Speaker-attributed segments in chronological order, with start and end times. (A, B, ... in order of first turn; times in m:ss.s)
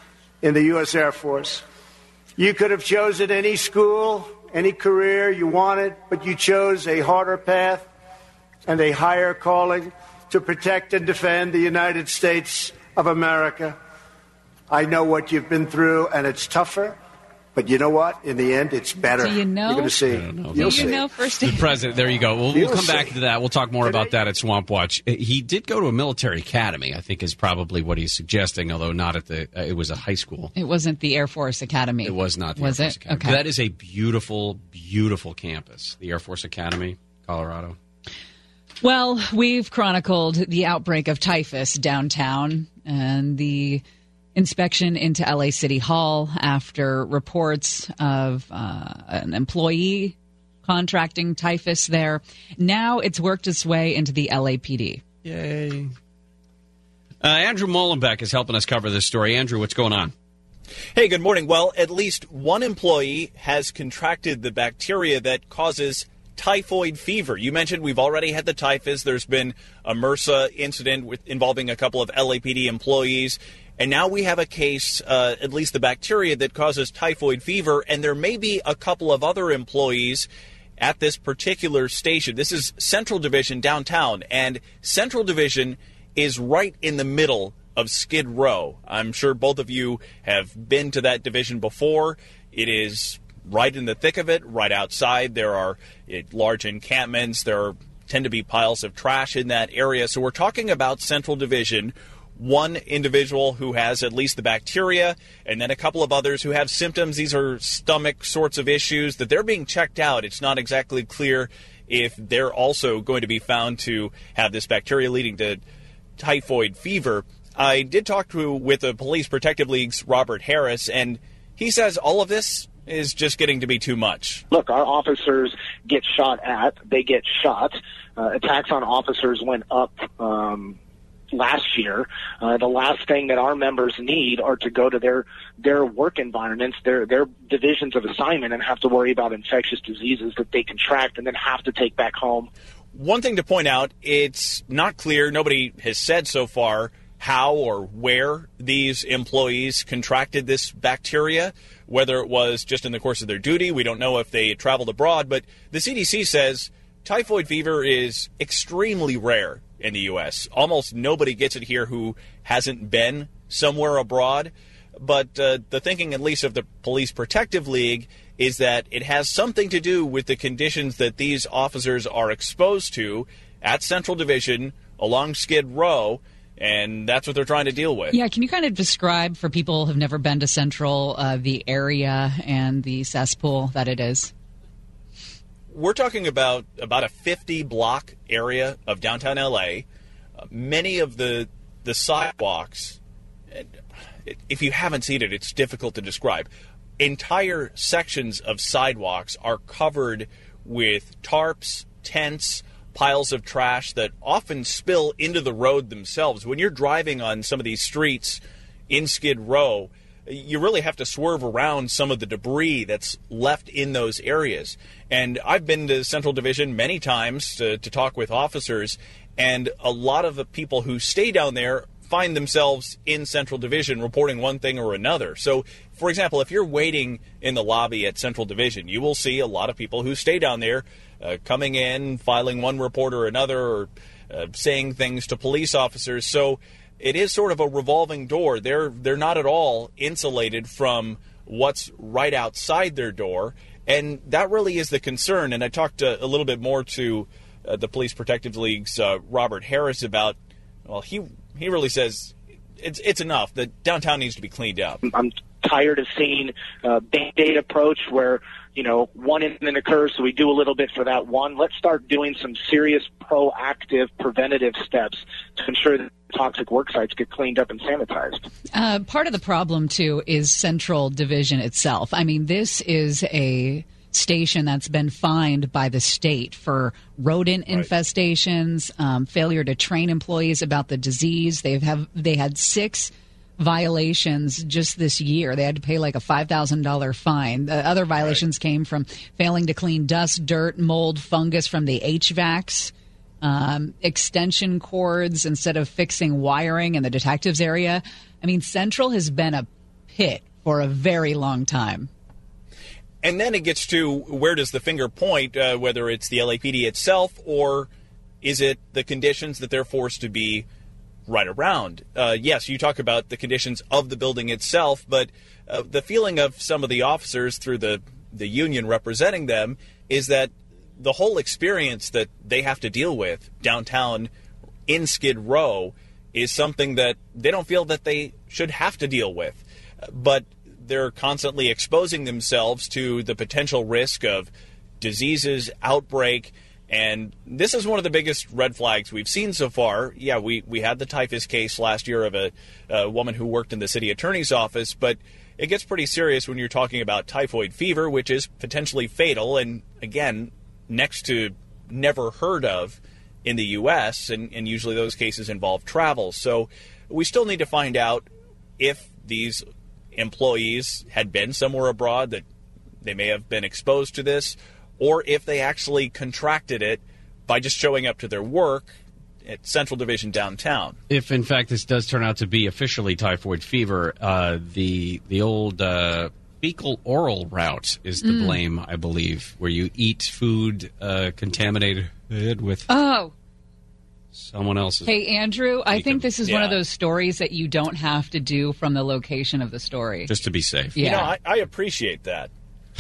0:00.4-0:01.6 A
0:02.4-0:07.9 A
0:08.6-0:13.8 A
0:14.7-0:17.0 A
0:17.6-0:21.0 A
0:19.2-0:20.0 B
0:20.1-0:30.5 C
0:20.5-0:21.7 B
0:22.5-0:23.1 A
0:30.6-0:33.4 B
0:32.0-0:37.8 C
0:38.8-0:43.8 B
0:44.4-0:55.0 B
0:55.2-0:55.9 C
0:57.2-1:00.1 C
1:01.0-1:20.3 D
1:20.8-1:55.6 D
1:56.2-2:04.4 D
2:04.5-2:10.8 E
2:11.3-2:22.5 E
2:22.9-2:58.2 D
2:58.1-3:04.3 B
3:05.7-3:09.8 D
3:10.4-3:13.0 D
3:14.2-4:15.0 D
4:15.0-4:28.4 E
4:28.7-5:02.1 B
5:03.2-5:07.9 D
5:08.4-5:10.6 D
5:11.3-5:24.3 D
5:24.9-5:34.5 D
5:35.0-5:58.3 D
5:58.8-5:59.6 D
6:00.1-6:02.4 D
6:03.0-6:11.0 D
6:11.1-6:22.9 C
6:18.2-6:18.6 B
6:22.9-6:23.3 B
6:24.3-6:25.2 C
6:25.0-6:30.3 B
6:25.9-6:26.3 C
6:26.4-6:26.8 D
6:30.3-6:31.2 C
6:31.0-6:31.3 B
6:31.0-6:32.5 D